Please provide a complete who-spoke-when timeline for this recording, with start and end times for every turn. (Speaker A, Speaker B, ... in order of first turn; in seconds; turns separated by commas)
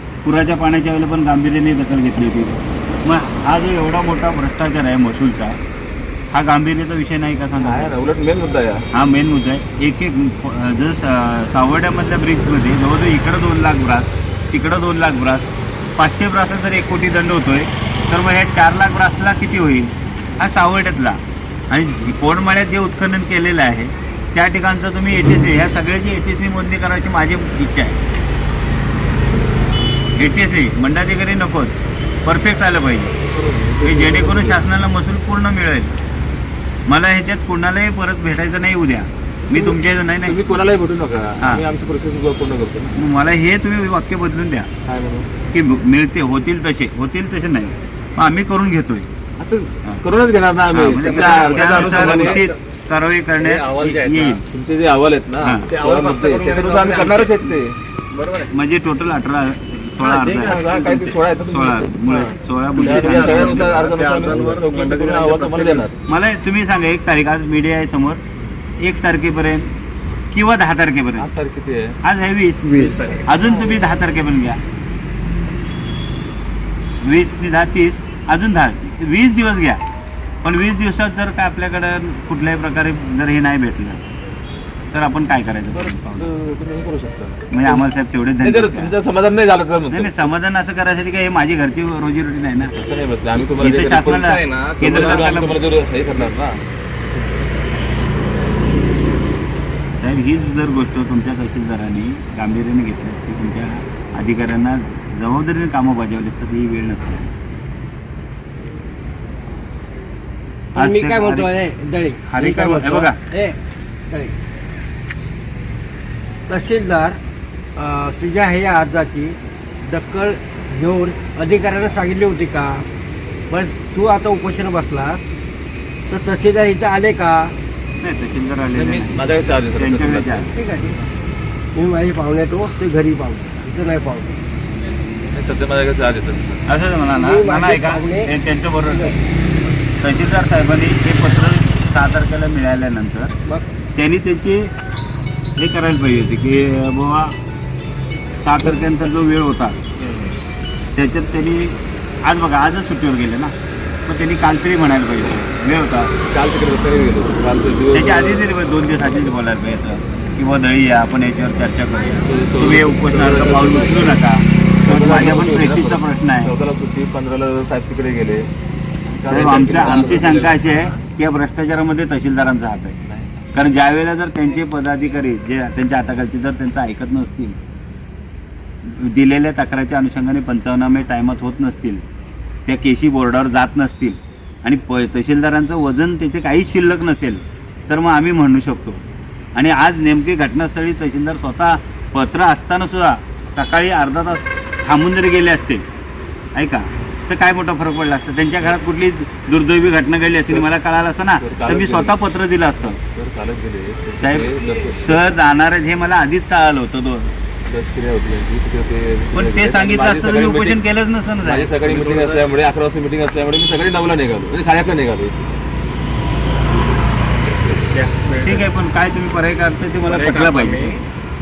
Speaker A: 0.2-5.6, Speaker A: 6.3-7.9, Speaker B: 7.6-8.8, Speaker A: 8.9-28.0, Speaker A: 30.2-33.1, Speaker B: 33.3-34.6, Speaker A: 33.8-35.9, Speaker A: 36.9-40.5, Speaker B: 39.5-43.0, Speaker A: 41.4-41.6, Speaker A: 43.0-44.7, Speaker B: 44.9-45.3, Speaker A: 45.5-49.1, Speaker B: 49.4-52.4, Speaker A: 50.7-54.4, Speaker C: 51.0-52.5, Speaker C: 53.4-54.4, Speaker B: 54.5-57.8, Speaker A: 55.4-55.7, Speaker C: 55.7-57.4, Speaker C: 58.1-58.5, Speaker A: 58.5-63.8, Speaker B: 60.0-66.0, Speaker C: 62.9-65.9, Speaker A: 66.1-68.2, Speaker A: 68.8-69.7, Speaker A: 70.3-71.3, Speaker B: 71.2-72.0, Speaker A: 72.0-74.6, Speaker C: 72.8-73.5, Speaker A: 77.0-79.8, Speaker A: 80.4-84.0, Speaker A: 84.9-86.3, Speaker B: 85.7-87.8, Speaker A: 87.5-89.0, Speaker B: 88.4-90.3, Speaker A: 89.9-92.7, Speaker B: 92.8-94.2, Speaker C: 93.5-96.4, Speaker A: 93.6-95.6, Speaker B: 94.8-96.6, Speaker A: 100.0-107.2, Speaker D: 110.8-113.6, Speaker A: 110.8-111.5, Speaker A: 112.3-113.2, Speaker D: 114.1-114.3, Speaker D: 116.5-117.2, Speaker D: 117.8-122.8, Speaker D: 123.5-125.2, Speaker D: 126.1-127.5, Speaker A: 128.0-129.2, Speaker B: 128.7-130.5, Speaker A: 129.8-130.5, Speaker D: 130.5-131.0, Speaker D: 131.8-134.4, Speaker B: 135.3-136.6, Speaker A: 136.7-139.1, Speaker D: 137.2-138.3, Speaker D: 138.9-139.2, Speaker A: 140.0-143.3, Speaker A: 144.0-144.7, Speaker A: 145.6-147.4, Speaker A: 148.4-149.8, Speaker B: 150.0-150.4, Speaker A: 151.0-153.5, Speaker A: 154.1-156.1, Speaker B: 156.3-158.4, Speaker A: 157.9-166.5, Speaker B: 162.2-164.2, Speaker B: 164.8-168.5, Speaker B: 169.1-170.7, Speaker A: 169.3-173.0, Speaker B: 173.1-173.7, Speaker A: 173.5-177.6, Speaker A: 178.8-182.0, Speaker A: 182.7-189.0, Speaker A: 189.6-195.8, Speaker A: 196.6-203.0, Speaker B: 201.4-205.3, Speaker A: 204.2-207.3, Speaker B: 207.7-210.8, Speaker A: 209.3-211.7, Speaker B: 211.4-215.5, Speaker C: 211.8-212.5, Speaker C: 217.9-218.7, Speaker A: 218.4-220.9, Speaker C: 220.1-221.1